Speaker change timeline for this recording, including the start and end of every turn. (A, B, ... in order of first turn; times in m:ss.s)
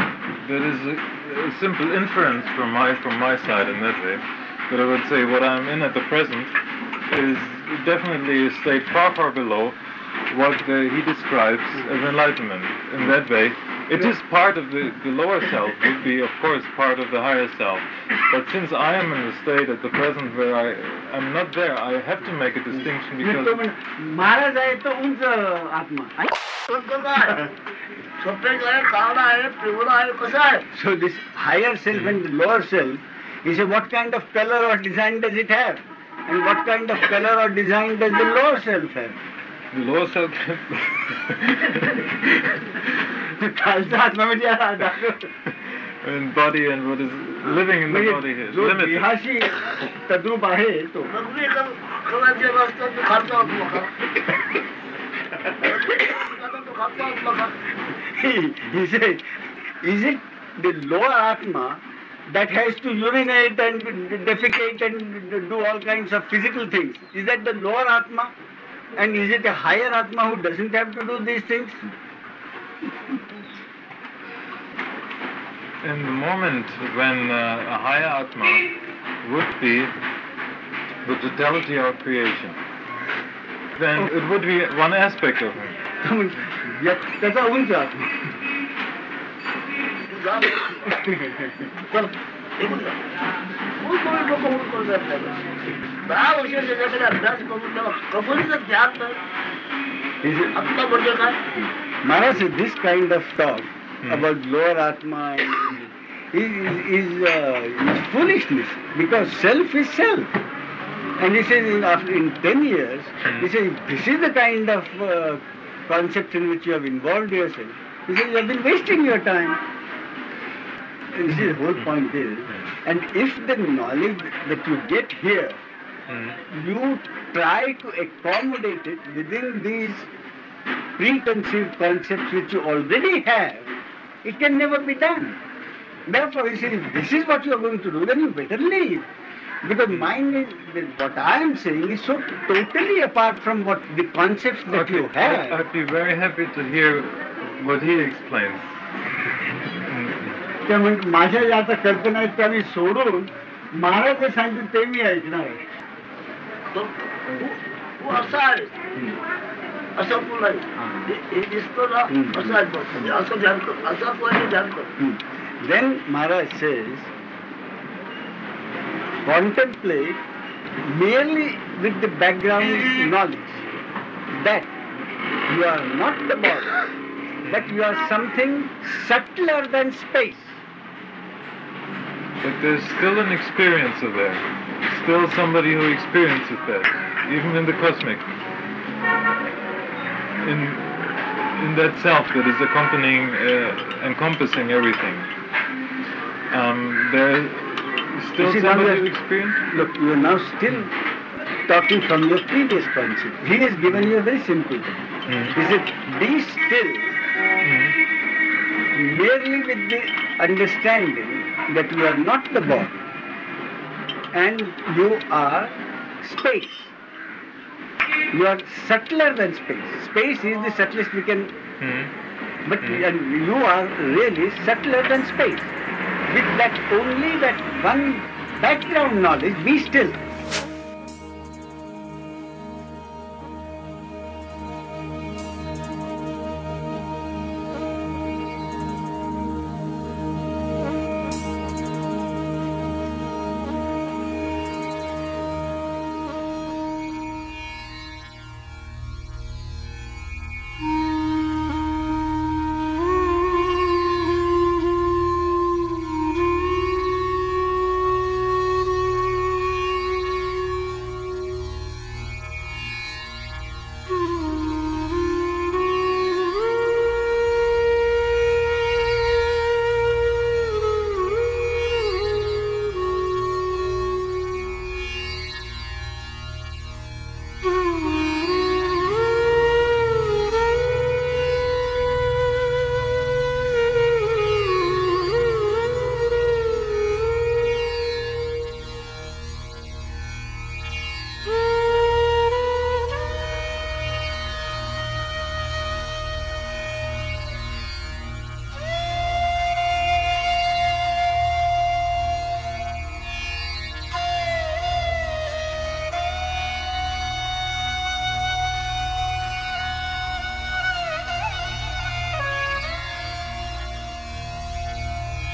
0:00.4-0:06.5 A
0:07.1-0:09.8 A
0:10.3-0:23.6 A
0:22.8-0:26.3 B
0:26.7-0:27.4 C
0:28.2-0:30.6 C
0:30.7-0:39.2 B
0:39.7-0:42.9 A
0:43.4-0:45.3 B
0:46.0-0:49.1 A
0:47.4-0:51.1 B
0:51.1-0:53.9 C
0:55.6-0:57.5 C
0:58.1-0:59.3 B
0:59.8-1:08.3 B
1:09.0-1:11.8 B
1:15.8-1:18.7 A
1:19.2-1:19.9 A
1:21.0-1:22.6 A
1:23.8-1:25.8 A
1:26.0-1:28.3 B
1:30.1-1:30.8 C
1:30.8-1:31.7 B
1:31.9-1:33.0 C
1:33.8-1:35.4 C
1:36.1-1:39.2 C
1:40.2-1:40.6 B
1:40.5-1:41.4 C
1:42.0-1:50.3 B
1:51.2-1:59.6 B
2:01.2-2:05.6 B
2:01.3-2:01.9 A
2:06.1-2:06.4 A
2:06.5-2:10.1 B
2:11.0-2:13.7 B
2:14.2-2:15.4 B
2:16.1-2:19.1 B
2:19.6-2:25.6 B
2:24.7-2:28.7 A
2:29.9-2:30.4 A
2:30.7-2:35.6 B
2:36.7-2:38.7 C
2:40.0-2:44.9 C
2:40.8-2:41.1 B
2:42.1-2:42.6 B
2:45.0-2:47.1 B
2:49.2-2:50.2 B
2:50.8-2:53.6 B
2:54.3-2:54.7 B
2:55.5-2:56.8 B
2:57.4-3:00.6 B
3:02.4-3:08.2 A
3:10.4-3:15.3 A
3:16.5-3:19.7 A
3:18.4-3:19.1 B
3:19.7-3:20.9 B
3:21.7-3:27.2 B
3:25.3-3:25.6 A
3:27.6-3:28.0 A
3:28.9-3:33.0 B
3:34.3-3:36.9 B
3:38.3-3:41.5 B
3:41.8-3:42.1 A
3:42.6-3:45.7 B
3:46.3-3:50.2 B